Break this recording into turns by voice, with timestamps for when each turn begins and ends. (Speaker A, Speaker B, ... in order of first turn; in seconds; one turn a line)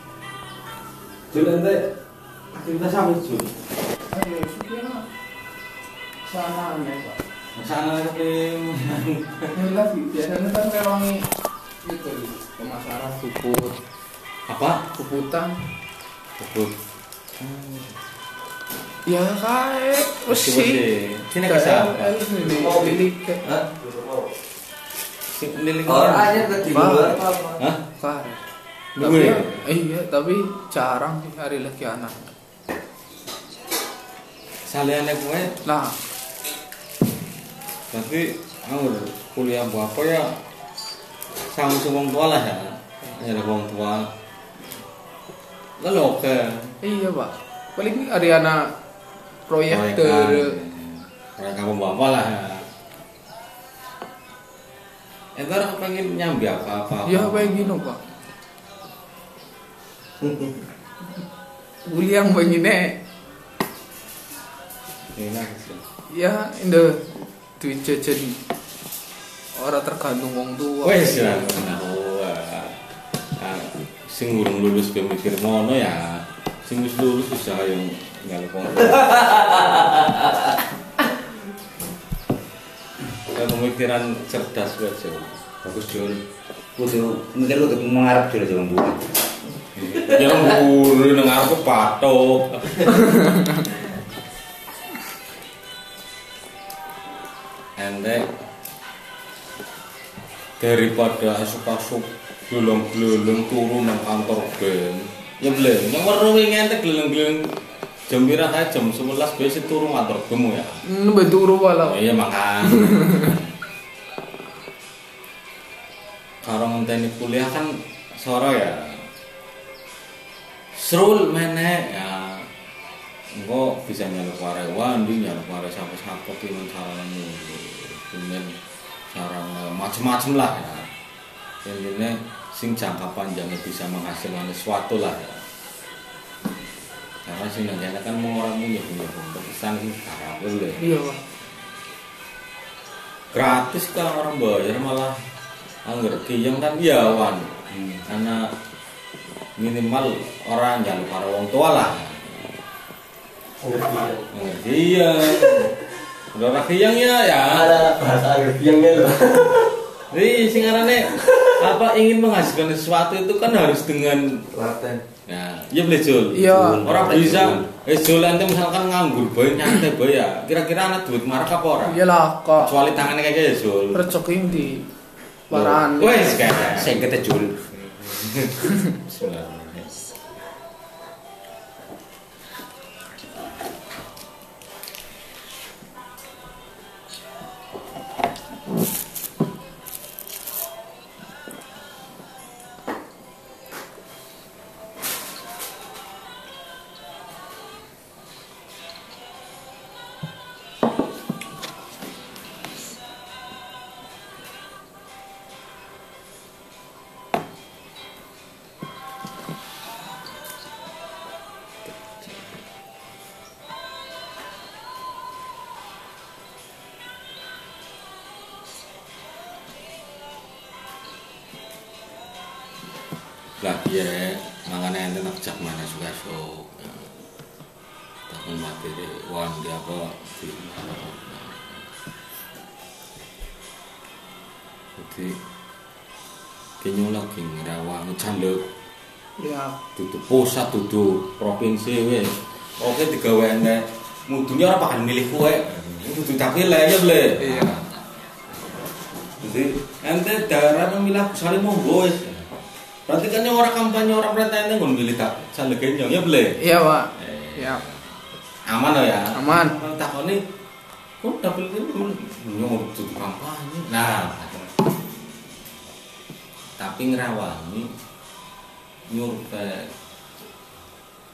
Speaker A: 1.3-1.9
Speaker A: 2.5-3.5
Speaker B: 4.1-5.0
Speaker B: 6.2-7.2
Speaker A: 7.5-9.5
Speaker B: 9.5-11.2
Speaker B: 11.8-13.8
Speaker A: 14.5-14.9
Speaker B: 14.9-15.6
Speaker A: 16.4-16.7
Speaker A: 17.4-18.0
Speaker B: 19.1-20.9
Speaker A: 20.3-22.2
Speaker B: 21.4-23.4
Speaker C: 22.4-24.3
Speaker A: 25.3-26.6
Speaker C: 25.9-27.6
Speaker B: 26.6-27.2
Speaker A: 27.6-27.8
Speaker B: 28.0-28.4
Speaker A: 29.0-29.6
Speaker B: 29.0-32.2
Speaker A: 34.6-35.6
Speaker B: 35.6-36.0
Speaker A: 37.9-40.4
Speaker A: 41.5-44.1
Speaker A: 45.8-46.8
Speaker B: 46.8-48.7
Speaker B: 49.5-50.6
Speaker A: 49.7-52.7
Speaker A: 55.4-57.8
Speaker B: 57.0-58.0
Speaker B: 61.8-63.0
Speaker A: 65.1-65.8
Speaker B: 66.1-67.1
Speaker B: 67.6-68.4
Speaker B: 69.5-71.5
Speaker A: 70.8-72.8
Speaker A: 73.4-79.7
Speaker C: 79.1-80.3
Speaker A: 83.3-85.4
Speaker C: 85.6-86.2
Speaker C: 86.8-89.0
Speaker A: 89.7-92.9
Speaker A: 97.8-98.2
Speaker A: 100.6-110.8
Speaker B: 110.8-112.0
Speaker A: 111.8-113.5
Speaker B: 112.6-113.3
Speaker A: 116.4-119.1
Speaker A: 120.7-122.5
Speaker A: 123.3-128.6
Speaker A: 129.1-130.9
Speaker A: 131.6-135.4
Speaker A: 137.2-140.9
Speaker B: 140.8-141.2
Speaker A: 143.3-145.2
Speaker A: 145.8-148.5
Speaker A: 149.6-152.6
Speaker C: 153.6-154.2
Speaker A: 154.0-155.8
Speaker A: 156.3-157.9
Speaker C: 157.5-159.7
Speaker A: 160.1-164.5
Speaker C: 164.6-165.0
Speaker A: 165.2-172.0
Speaker B: 166.3-166.8
Speaker C: 166.5-167.6
Speaker B: 171.8-172.7
Speaker A: 172.6-174.7
Speaker B: 173.9-174.9
Speaker B: 175.5-176.7
Speaker A: 175.5-177.1
Speaker C: 176.7-177.6
Speaker A: 177.7-179.9
Speaker A: 211.9-212.5
Speaker A: 223.6-227.1
Speaker A: 228.3-231.9
Speaker A: 235.0-235.4
Speaker A: 236.8-238.7
Speaker B: 239.4-239.8
Speaker A: 239.9-248.0
Speaker B: 247.4-247.8
Speaker A: 249.4-252.5
Speaker A: 253.1-256.6
Speaker B: 256.6-257.8
Speaker A: 257.1-258.0
Speaker A: 258.6-260.4
Speaker B: 259.3-259.8
Speaker A: 261.2-264.7
Speaker A: 266.8-267.9
Speaker A: 269.1-269.9